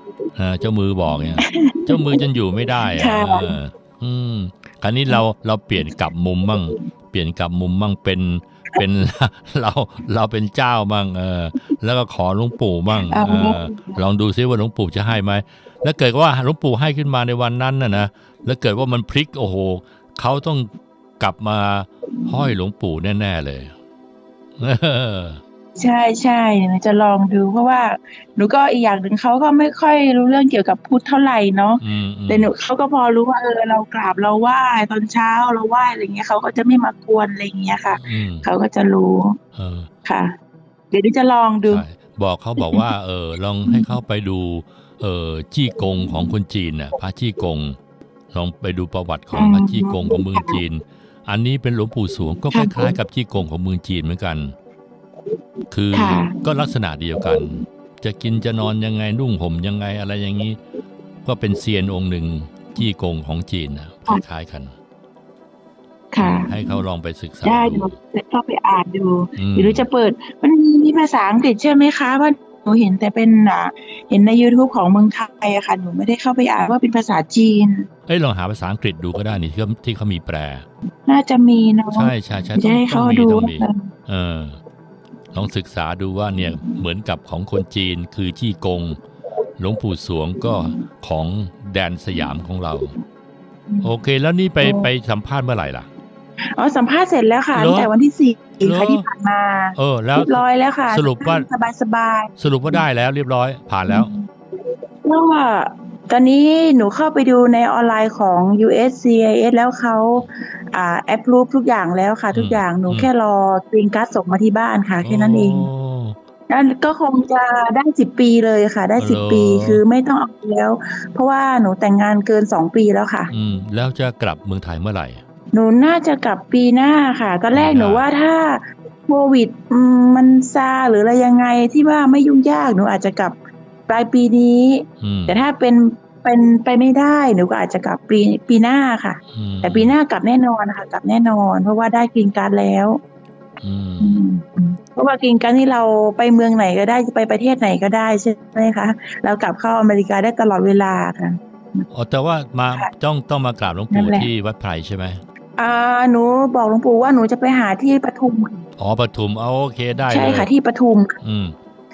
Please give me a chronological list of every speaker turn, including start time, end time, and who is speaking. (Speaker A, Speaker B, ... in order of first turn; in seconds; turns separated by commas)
Speaker A: 0.3-23.7, Speaker B: 1.4-2.2, Speaker B: 2.9-3.5, Speaker B: 13.1-14.0, Speaker A: 24.6-25.4, Speaker B: 25.8-39.4, Speaker A: 31.8-32.5, Speaker A: 37.9-38.5, Speaker A: 39.5-39.9, Speaker B: 40.0-40.3, Speaker B: 40.9-41.8, Speaker A: 41.6-47.8, Speaker B: 42.6-42.9, Speaker A: 48.3-54.5, Speaker B: 49.3-50.6, Speaker B: 52.5-52.9, Speaker A: 55.7-60.6, Speaker B: 55.9-56.4, Speaker A: 61.2-64.7, Speaker B: 66.1-66.7, Speaker A: 66.2-67.9, Speaker B: 67.4-77.9, Speaker A: 69.3-69.8, Speaker A: 78.1-80.6, Speaker B: 81.1-83.9, Speaker A: 81.9-84.6, Speaker A: 85.3-89.0, Speaker B: 86.4-86.8, Speaker A: 89.6-92.9, Speaker A: 93.8-95.9, Speaker B: 94.6-94.9, Speaker B: 96.5-102.8, Speaker A: 97.5-97.9, Speaker A: 98.6-99.1, Speaker A: 99.8-101.5, Speaker A: 102.4-104.1, Speaker B: 103.9-104.3, Speaker B: 105.0-115.7, Speaker A: 112.3-113.1, Speaker A: 115.0-116.2, Speaker B: 116.5-123.3, Speaker A: 119.0-119.8, Speaker A: 123.3-125.2, Speaker B: 125.5-133.3, Speaker A: 127.5-128.1, Speaker B: 133.9-143.0, Speaker A: 135.0-135.4, Speaker A: 139.3-139.9, Speaker A: 143.6-144.2, Speaker B: 144.0-151.9, Speaker A: 151.9-155.2, Speaker B: 153.9-154.3, Speaker B: 155.6-158.7, Speaker A: 158.8-160.5, Speaker B: 160.1-161.2, Speaker A: 161.2-161.5